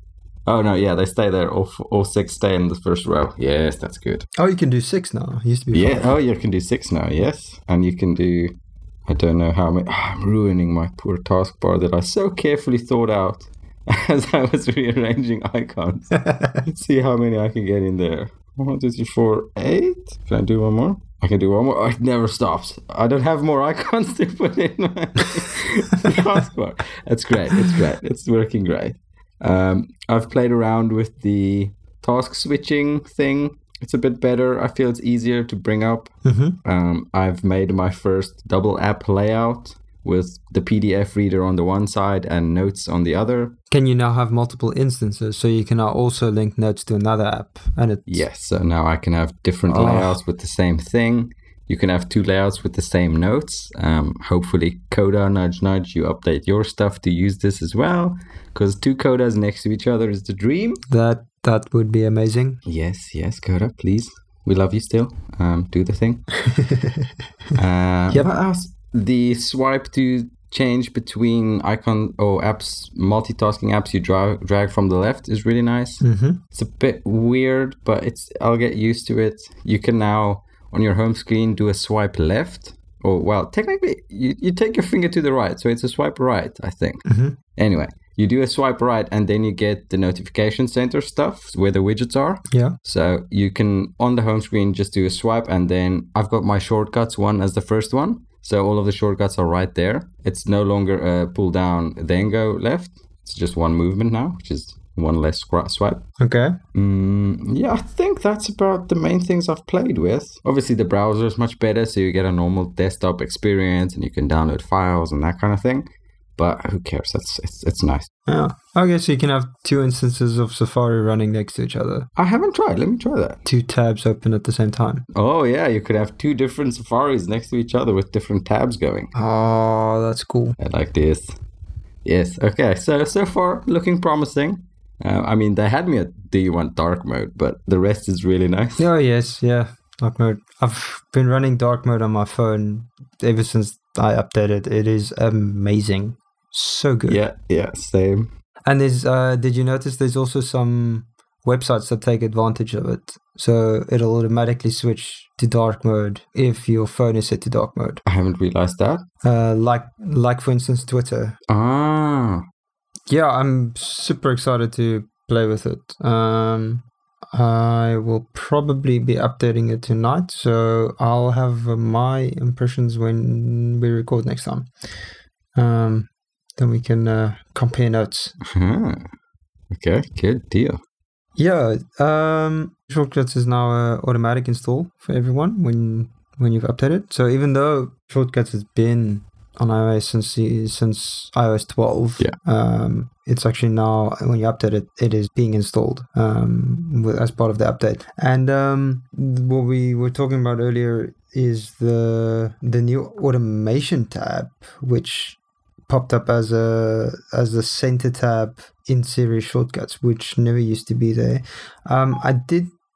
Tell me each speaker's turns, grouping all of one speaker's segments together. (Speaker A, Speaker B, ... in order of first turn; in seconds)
Speaker A: 0.5-4.3, 5.7-43.5, 48.1-60.8, 62.6-66.3, 67.5-87.0, 87.5-106.1, 106.7-118.1, 122.2-123.4, 125.1-129.1, 130.6-131.3, 132.0-138.9, 147.1-148.3, 158.0-159.0, 161.5-162.4, 178.4-179.1, 179.7-180.8
Speaker B: 4.4-6.1, 36.2-36.6, 43.7-48.2, 49.7-50.2, 60.9-62.6, 66.5-67.0, 76.0-76.4, 87.0-87.3, 92.5-92.8, 106.2-106.6, 118.3-122.1, 123.4-125.0, 129.1-130.6, 138.8-147.2, 148.7-158.0, 159.2-161.4, 163.1-174.7, 175.5-178.4, 181.4-212.7